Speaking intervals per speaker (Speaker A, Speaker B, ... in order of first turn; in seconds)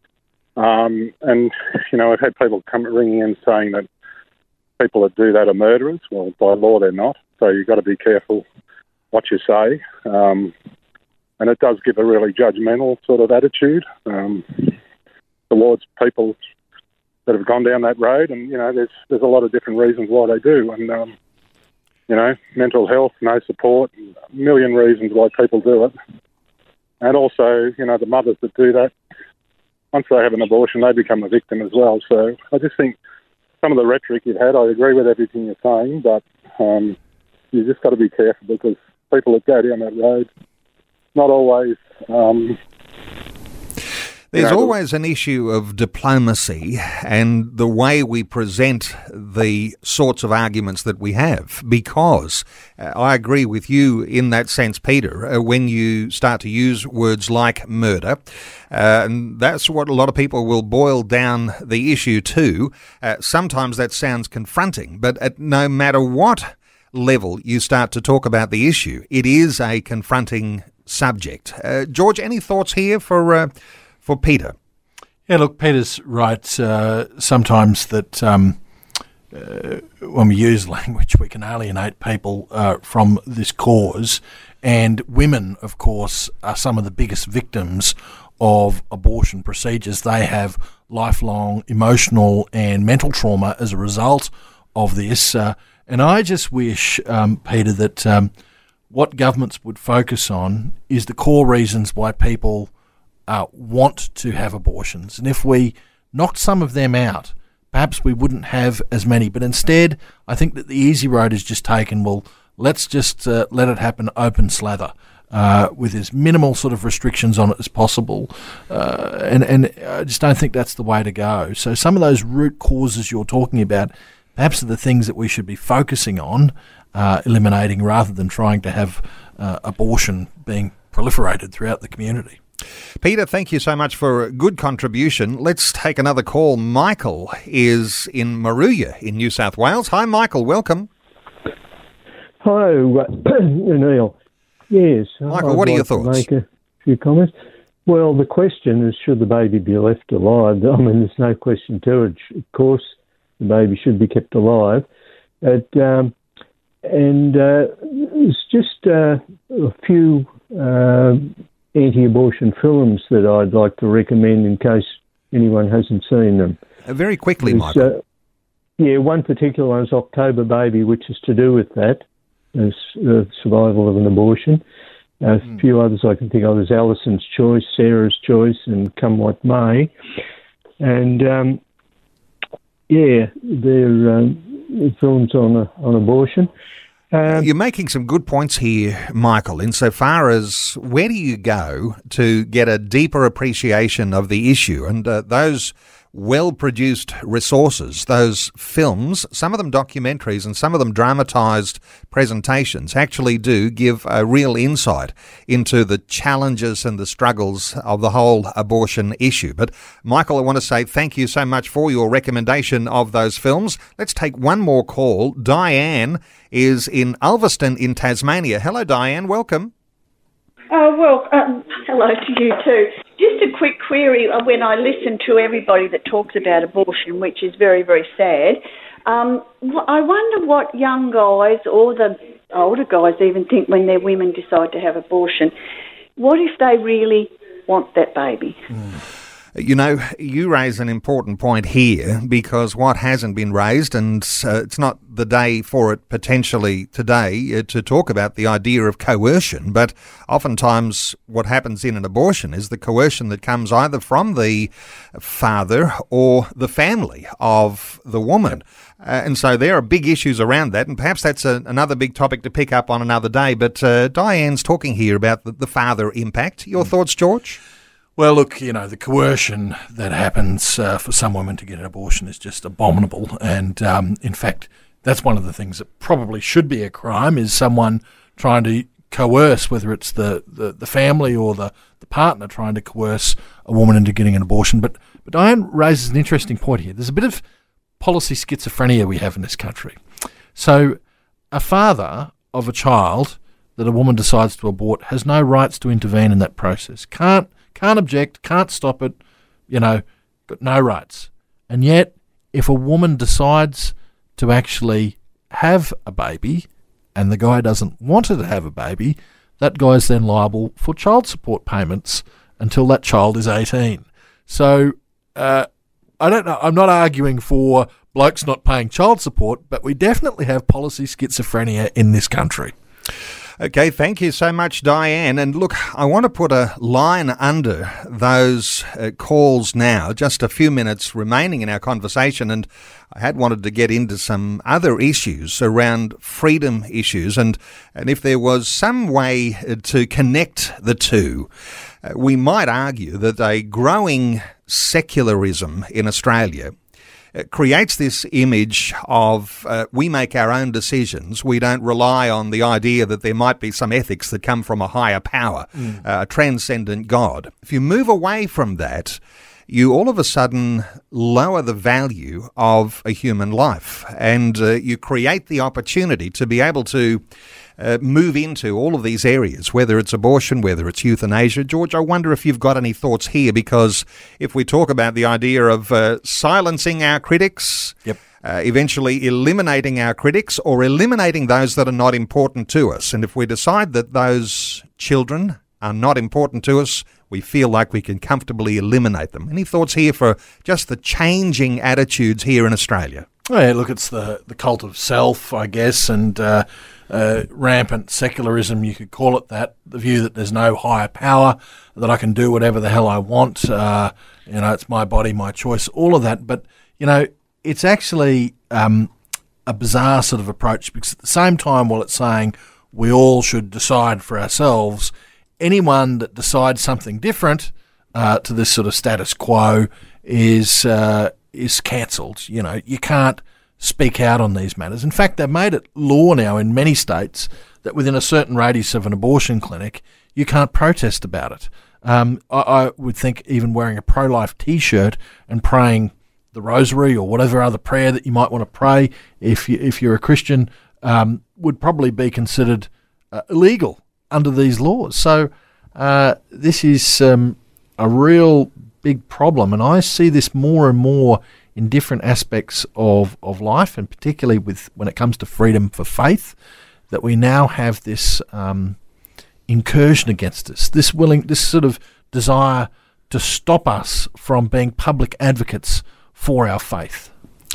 Speaker A: 0.6-3.9, 4.8-8.4, 9.1-10.5, 11.4-14.8, 15.5-16.4, 17.3-21.1, 22.1-25.9, 27.0-28.9, 29.9-33.0, 33.6-37.0, 37.5-40.3, 41.1-42.6, 44.4-44.7
Speaker B: 44.3-58.2, 58.7-73.5, 74.0-74.5, 133.0-140.9, 145.3-146.3, 166.9-167.9, 187.3-219.7, 239.6-267.6, 323.6-341.5, 342.1-346.7, 347.4-367.2, 367.8-393.3
Speaker C: 75.3-78.6, 79.3-98.3, 98.9-102.7, 103.3-132.4, 268.2-287.4, 288.0-290.0, 290.6-291.0, 291.5-299.2, 299.7-315.7, 316.2-322.8, 393.5-409.1, 409.7-456.6, 457.1-459.0, 459.7-467.3
Speaker D: 142.4-144.2, 144.7-147.3, 147.9-154.9, 155.4-156.1, 156.8-166.6, 167.4-168.0, 168.8-174.6, 175.2-179.9, 180.8-181.6, 182.9-186.5, 187.1-187.5
Speaker E: 220.7-235.5, 236.2-238.6